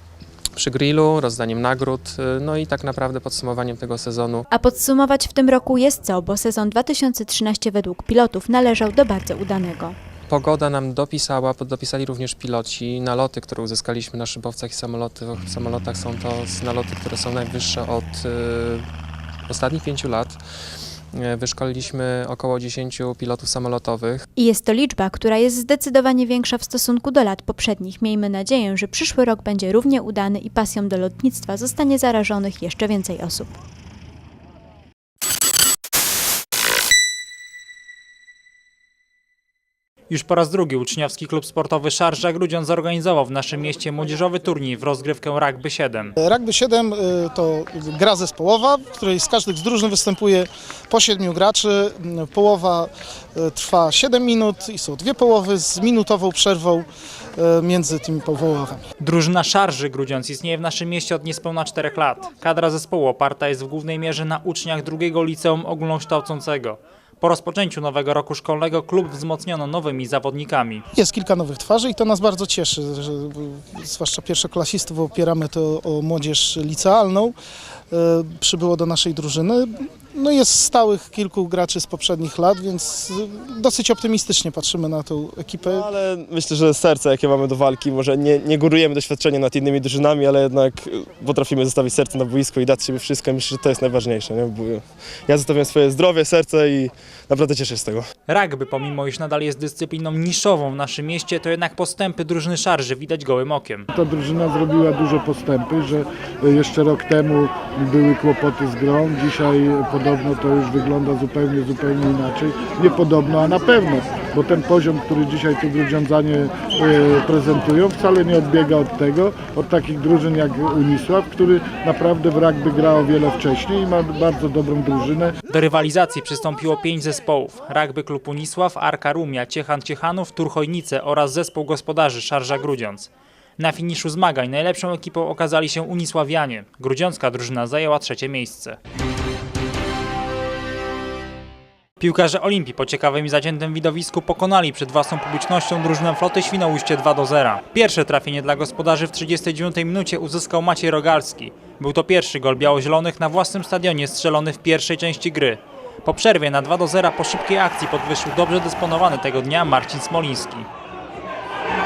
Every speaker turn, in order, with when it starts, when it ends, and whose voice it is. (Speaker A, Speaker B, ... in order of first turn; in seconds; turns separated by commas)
Speaker A: 0.6-4.5, Speaker B: 4.5-9.9, Speaker A: 10.3-18.9, Speaker A: 19.5-20.4, Speaker A: 21.2-24.2, Speaker B: 24.4-33.5, Speaker C: 40.1-46.1, Speaker D: 46.2-56.9, Speaker D: 57.4-58.8, Speaker C: 59.0-70.8, Speaker D: 70.9-77.3, Speaker D: 77.9-85.9, Speaker E: 85.7-98.0, Speaker C: 98.3-103.9, Speaker F: 103.9-125.3, Speaker C: 125.5-133.1, Speaker C: 133.6-138.8, Speaker C: 142.0-160.7